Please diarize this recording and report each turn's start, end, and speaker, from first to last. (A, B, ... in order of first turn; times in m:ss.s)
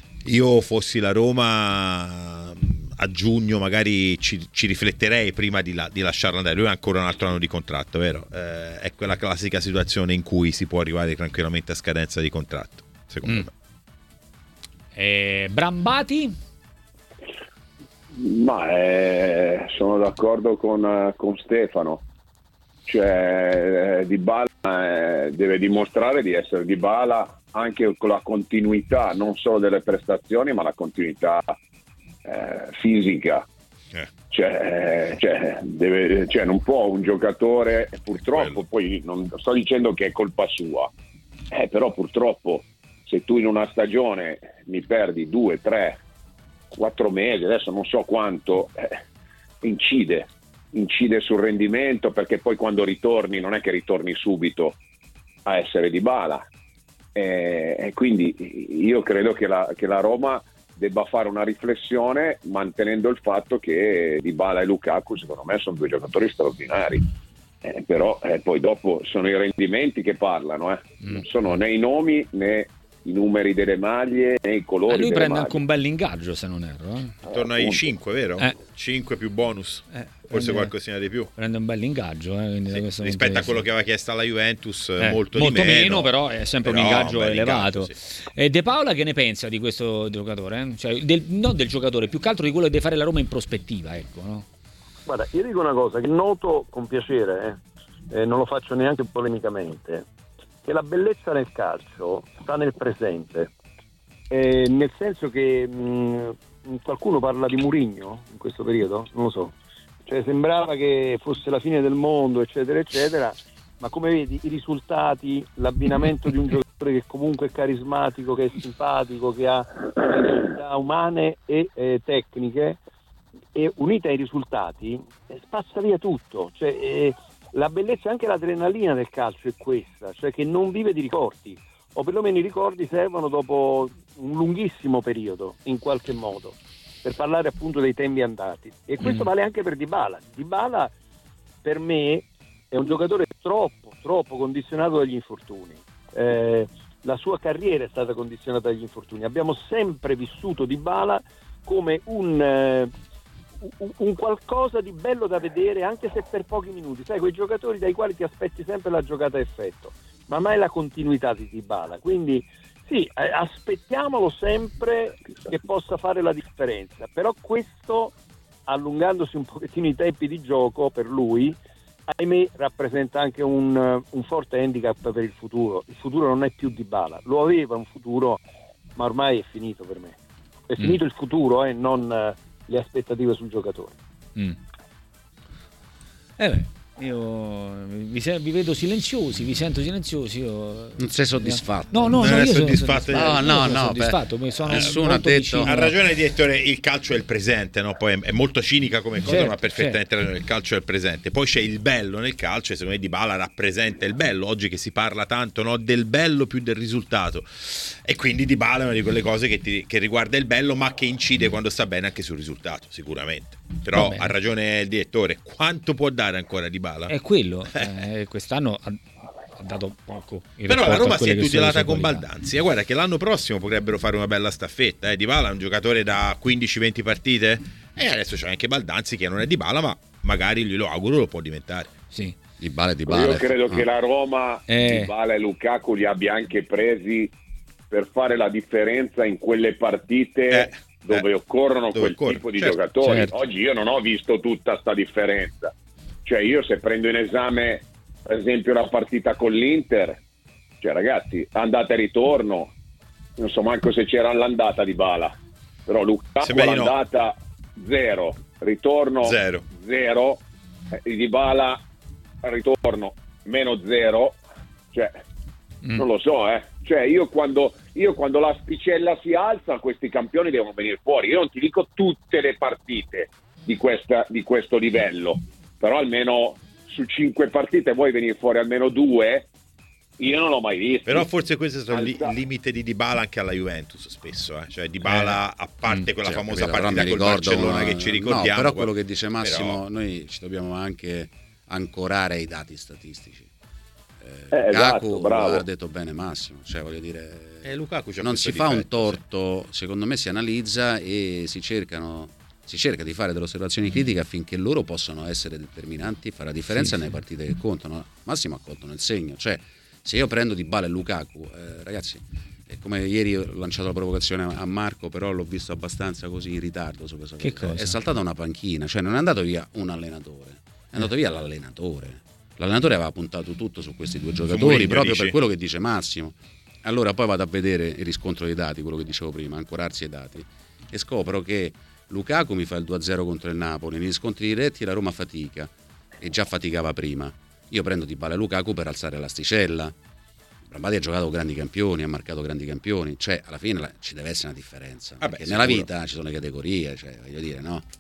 0:00.3-0:13.5 A
0:15.0-0:16.4 B
0:18.2-0:22.0 C
0:22.9-0:31.6 C
0:32.2-0:33.4 C
0:34.3-0:40.9 C
0:41.5-0:46.0 C
0:46.7-0:49.0 C
0:49.6-0:54.8 C
0:55.5-0:56.4 C
0:57.2-1:07.1 C
1:07.6-1:15.6 C
1:14.9-1:17.1 B
1:17.3-1:17.9 C
1:17.3-1:21.3 A
1:19.9-1:20.7 B
1:21.4-1:23.6 B
1:22.7-1:28.0 A
1:25.0-1:34.5 B
1:35.1-1:37.6 D
1:38.1-1:40.0 D
1:40.6-1:43.5 D
1:44.3-1:49.5 D
1:50.1-2:02.8 D
2:03.6-2:20.9 D
2:19.0-2:19.3 B
2:21.6-2:32.9 D
2:33.6-2:48.2 D
2:48.7-2:51.6 D
2:52.1-2:58.4 D
2:59.0-3:00.2 D
3:00.7-3:04.0 D
3:06.4-3:15.9 B
3:11.0-3:12.4 E
3:12.2-3:13.6 A
3:13.1-3:15.7 E
3:15.7-3:37.1 A
3:19.2-3:20.0 B
3:33.9-3:34.3 B
3:37.1-3:39.0 B
3:39.6-3:42.2 B
3:40.7-3:51.9 A
3:52.6-3:53.9 E
3:53.1-3:57.3 C
3:54.7-3:55.1 B
3:57.9-4:05.7 C
4:00.5-4:01.3 A
4:01.9-4:02.8 A
4:03.0-4:03.3 B
4:06.3-4:10.2 C
4:10.8-4:12.7 C
4:13.4-4:15.3 C
4:15.9-4:20.4 C
4:16.4-4:16.9 A
4:19.2-4:19.6 A
4:21.0-4:21.8 C
4:22.4-4:24.4 C
4:26.0-4:39.5 C
4:40.2-4:41.3 C
4:41.1-4:48.9 A
4:41.9-4:42.4 C
4:46.2-4:53.5 E
4:49.4-4:49.8 A
4:54.2-5:39.9 E
4:54.5-4:55.6 C
4:57.6-4:59.2 A
5:17.4-5:18.0 B
5:24.5-5:25.4 A
5:40.7-5:47.8 E
5:45.2-5:45.9 A